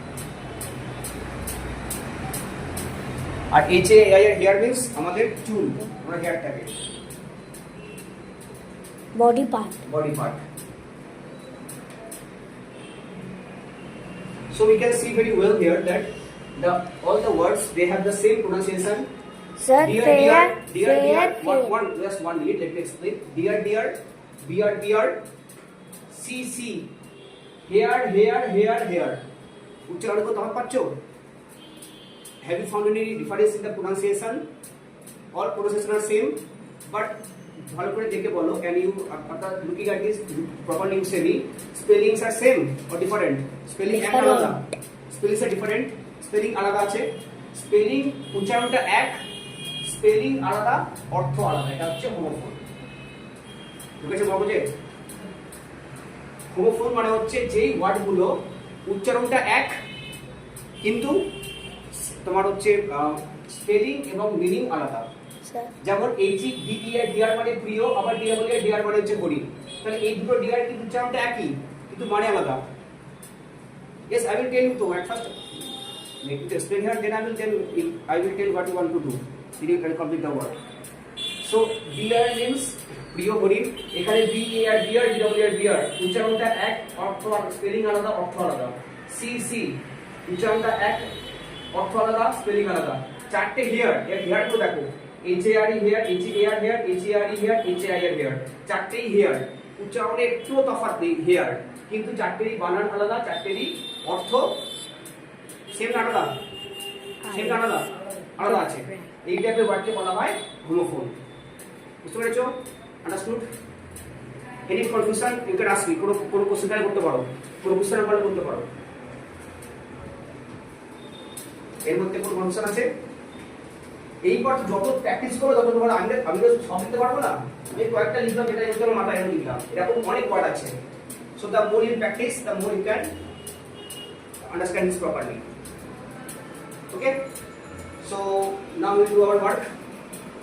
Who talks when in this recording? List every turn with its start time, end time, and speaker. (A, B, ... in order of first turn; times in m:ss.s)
0:03.5-0:06.8 A
0:09.2-0:09.8 B
0:09.8-0:10.4 A
0:14.5-0:19.1 A
0:19.6-0:21.8 B
0:19.8-0:25.2 A
0:26.1-0:26.9 A
0:27.6-0:29.2 A
0:29.9-0:31.0 A
0:32.4-0:34.4 A
0:35.3-0:36.4 A
0:36.9-0:49.2 A
0:43.9-0:44.6 B
0:49.8-0:52.6 A
0:54.0-0:54.7 A
0:56.5-0:58.3 A
0:58.9-0:59.7 A
1:00.8-1:01.2 A
1:01.9-1:05.1 A
1:05.4-1:05.7 B
1:05.8-1:12.6 A
1:14.1-1:15.4 A
1:16.2-1:20.6 A
1:21.4-1:31.1 A
1:31.7-1:44.6 A
1:45.7-1:46.3 A
1:47.2-1:47.6 B
1:47.3-1:51.2 A
1:48.4-1:49.1 B
1:52.0-1:52.5 A
1:53.0-1:53.4 A
1:54.7-1:58.7 A
2:01.9-2:02.9 A
2:04.2-2:10.8 A
2:11.4-2:13.1 A
2:14.5-2:15.4 A
2:16.9-2:17.2 A
2:18.0-2:19.6 A